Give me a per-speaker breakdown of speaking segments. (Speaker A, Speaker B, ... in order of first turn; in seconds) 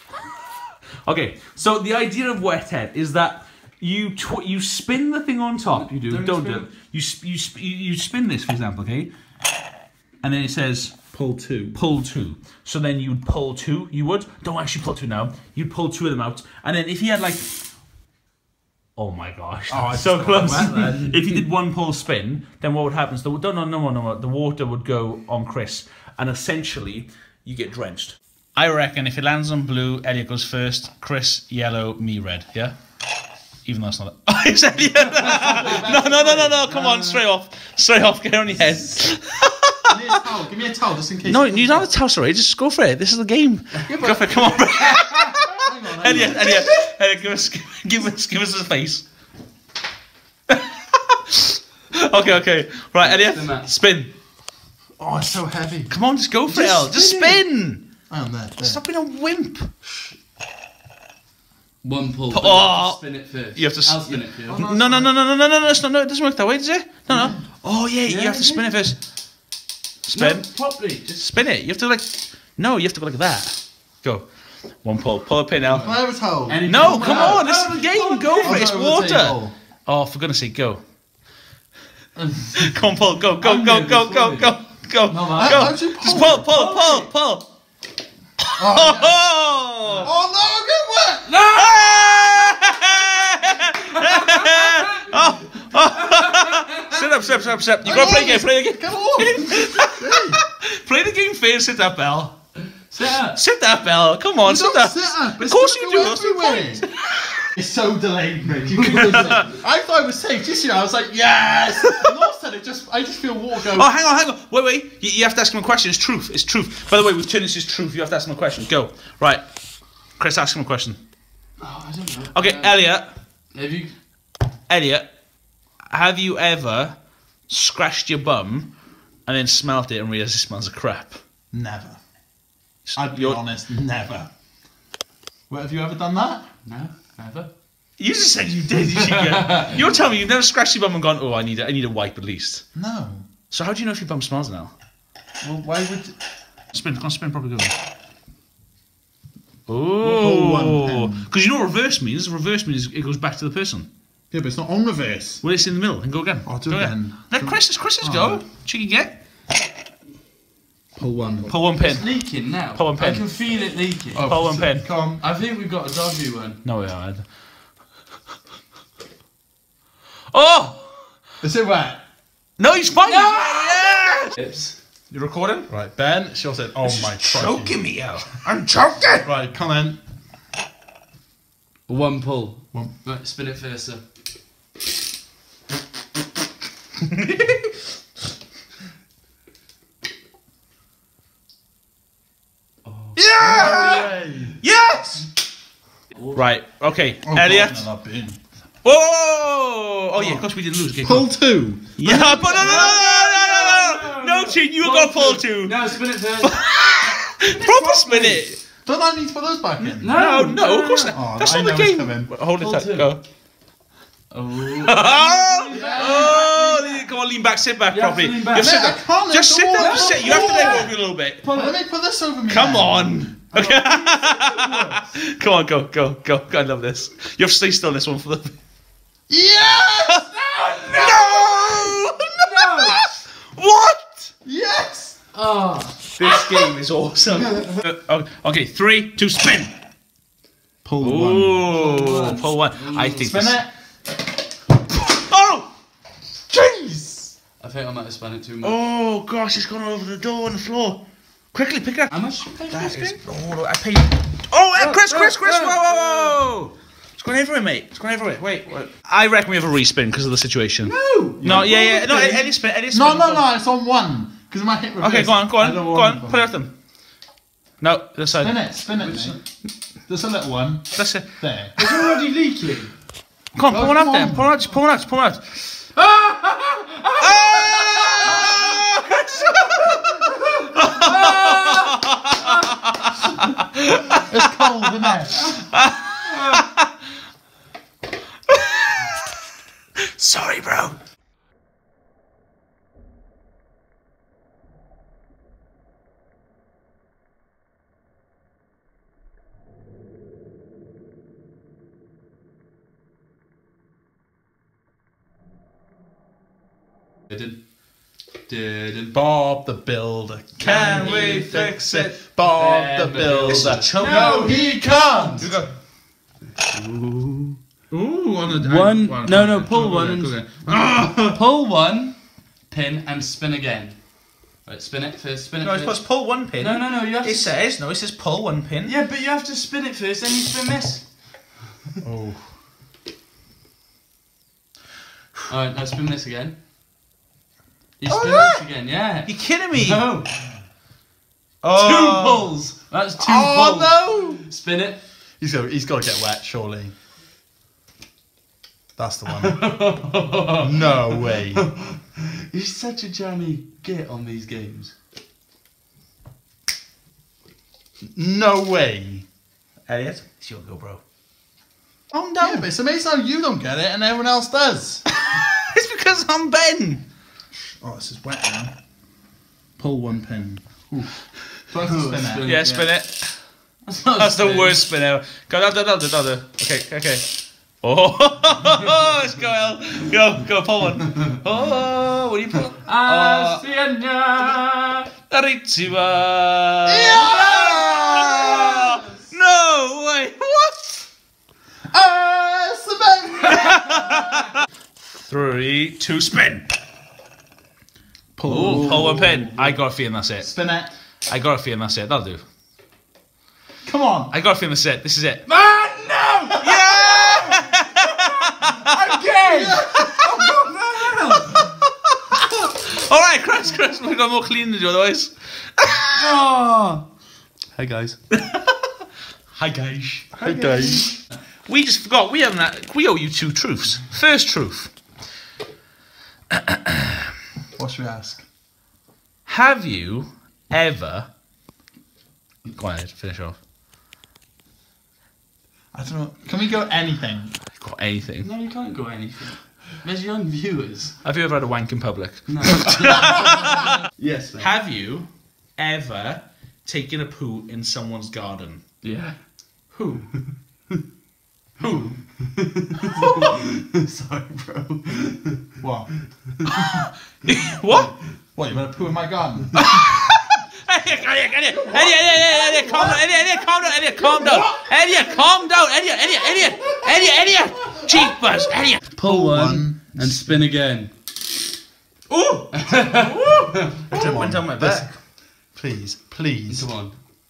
Speaker A: 0.2-9.1, 10.2-11.0, 11.7-17.7, 18.9-32.8, 33.6-39.9, 41.2-49.0, 50.5-54.1, 55.9-57.9, 58.6-59.7, 62.3-69.0, 70.0-70.5, 71.1-74.2, 74.8-75.9, 76.7-80.8, 82.5-87.5, 88.5-90.1, 91.4-102.4, 103.3-107.5, 108.8-109.5, 111.9-112.1, 113.6-119.4, 120.2-121.0, 122.3-123.1, 124.7-125.1, 125.9-128.7, 129.2-131.2, 132.8-133.4, 138.0-142.7, 143.5-144.7, 146.7-147.7, 149.7-153.9, 155.4-159.1, 161.4-162.2, 162.7-163.2, 164.2-164.9, 166.6-167.3, 170.3-171.1, 172.6-174.3, 175.1-175.7, 176.8-179.3, 187.1-187.7, 193.4-194.0, 194.6-195.3, 196.3-197.9, 198.8-201.3, 202.0-205.8, 206.4-208.6, 210.0-213.2, 214.8-221.4, 222.5-228.6, 230.8-234.3, 236.2-239.7, 241.0-243.6, 245.0-245.7, 248.6-251.0, 251.5-252.1, 252.7-263.5, 265.0-266.7, 267.8-268.6, 270.9-271.3, 271.9-272.1, 273.5-275.7, 277.2-284.2, 285.6-286.9, 288.5-289.4, 290.1-290.9, 310.6-312.1, 313.5-314.6, 315.4-315.7, 317.9-321.4, 325.6-329.0, 339.2-340.1, 341.6-342.5, 359.9-361.0, 362.1-362.7, 365.1-367.0, 372.4-373.4, 374.2-383.6, 385.3-391.1, 393.5-394.5, 395.2-396.6, 398.5-400.5, 401.3-402.4, 404.3-405.4, 406.6-409.0, 411.5-416.3, 418.3-418.7, 420.5-421.0, 421.6-424.9, 426.5-427.1, 429.4-431.3, 432.7-433.6, 437.8-438.5, 441.2-443.9, 444.6-448.8, 449.9-450.3, 451.8-452.2, 456.6-458.1, 459.7-469.1, 472.3-475.2
Speaker B: 5.8-6.7, 53.0-53.7, 61.8-64.6, 68.0-68.7, 70.1-71.2, 75.7-75.9, 76.5-78.6, 83.4-84.5, 86.0-87.1, 89.8-90.1, 91.3-92.7, 93.8-97.1, 102.9-103.4, 108.8-109.3, 121.6-122.8, 123.5-123.9, 136.7-137.5, 139.2-139.7, 161.8-164.4, 165.2-166.6, 173.0-174.8, 181.9-184.0, 192.8-194.1, 202.1-206.7, 207.4-208.4, 209.8-211.2, 212.6-213.1, 214.3-217.0, 217.9-219.0, 219.7-220.9, 221.5-221.8, 223.5-225.1, 230.3-233.1, 235.3-236.7, 241.6-243.3, 247.6-248.8, 252.1-253.2, 254.8-256.4, 260.8-262.4, 268.9-269.4, 271.8-272.9, 276.0-278.6, 279.9-282.7, 286.3-286.6, 307.3-307.6, 308.5-309.1, 310.6-314.6, 316.6-317.6, 318.5-320.5, 321.2-322.1, 322.7-324.0, 324.6-327.5, 328.8-331.0, 335.5-336.6, 338.0-340.3, 341.7-345.0, 349.3-354.9, 371.8-372.9, 373.9-374.8, 382.8-385.1, 398.5-399.3, 405.5-407.6, 408.8-411.7, 416.1-417.1, 417.7-418.2, 419.5-421.0, 438.4-441.1, 442.5-444.7, 449.0-449.4, 452.5-455.7, 469.1-471.1, 472.7-473.9, 476.7-477.1
Speaker C: 11.1-11.8, 19.7-21.2, 35.1-37.2, 39.9-41.9, 43.9-44.7, 45.5-46.7, 55.0-55.9, 56.5-57.4, 58.1-58.8, 64.5-65.1, 67.1-67.4, 75.7-79.5, 82.2-82.4, 85.1-86.5, 88.5-89.2, 90.0-91.4, 97.8-100.4, 104.4-106.8, 107.5-113.9, 131.5-132.0, 132.9-134.3, 135.5-136.4, 142.7-143.2, 145.4-146.1, 150.0-151.3, 154.3-155.4, 156.4-158.4, 160.9-161.5, 164.1-165.2, 171.4-172.0, 175.7-177.8, 179.2-180.0, 193.2-194.6, 197.2-198.4, 200.1-200.5, 201.0-203.0, 208.8-210.1, 211.1-212.3, 215.7-216.4, 218.5-223.3, 229.3-230.3, 234.4-235.2, 240.8-241.6, 243.2-243.7, 246.5-247.3, 261.4-266.5, 268.4-269.4, 270.1-271.8, 273.6-274.5, 284.1-285.6, 309.1-315.5, 332.0-332.4, 338.1-338.6, 343.2-344.4, 345.4-346.9, 348.9-349.6, 350.6-351.6, 358.1-359.2, 362.4-365.0, 367.8-368.7, 369.8-372.6, 386.9-389.0, 391.9-394.0, 398.4-399.8, 400.4-400.9, 403.9-404.3, 409.2-410.6, 420.4-421.1, 427.7-428.4, 435.9-437.6, 455.8-456.1, 458.6-459.8, 469.2-470.6, 474.1-476.9